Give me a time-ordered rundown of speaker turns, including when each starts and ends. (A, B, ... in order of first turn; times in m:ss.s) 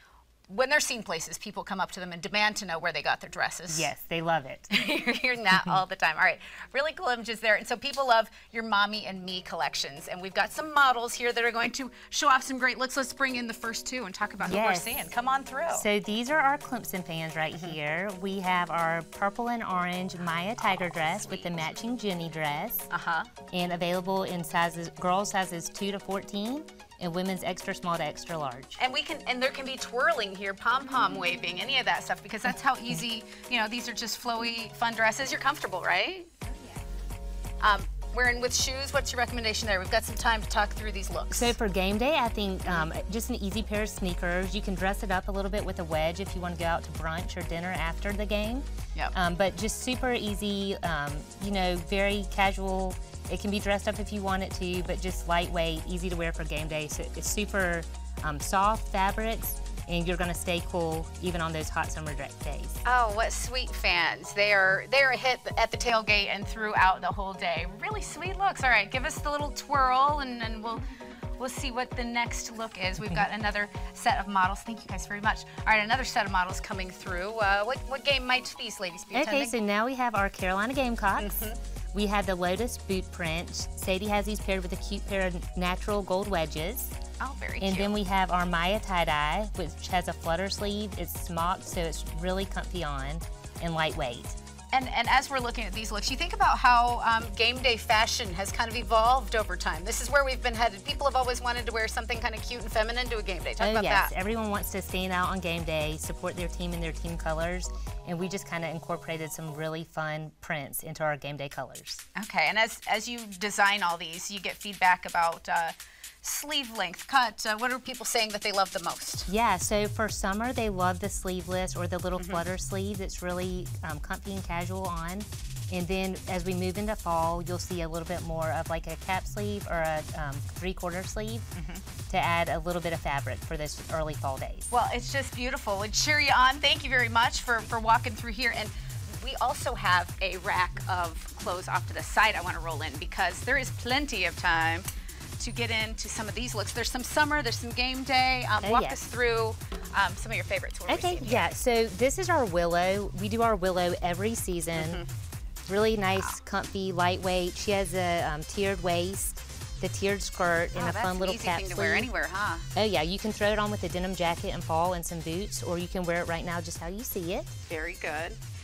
0:00.5-0:03.9 A
0:03.7-0:04.8 B
0:04.7-0:15.9 A
0:14.4-0:15.0 B
0:15.7-0:22.9 B
0:22.9-0:23.3 A
0:23.5-0:28.8 B
0:28.8-0:36.3 A
0:37.6-0:41.6 A
0:41.3-1:02.8 B
1:02.8-1:10.8 A
1:11.4-1:19.5 A
1:19.1-1:26.9 B
1:21.2-1:21.6 A
1:27.2-1:28.0 A
1:27.6-1:34.4 B
1:34.7-1:44.1 A
1:43.6-1:52.0 B
1:52.2-1:59.3 A
1:59.3-2:11.5 B
2:02.2-2:02.4 A
2:11.6-2:11.8 A
2:12.1-2:14.7 B
2:14.7-2:24.9 A
2:25.4-2:31.5 A
2:28.6-2:29.0 B
2:30.9-2:35.0 B
2:34.8-2:35.1 A
2:35.7-2:42.1 B
2:40.7-2:42.7 A
2:42.8-2:47.6 B
2:47.7-2:48.4 A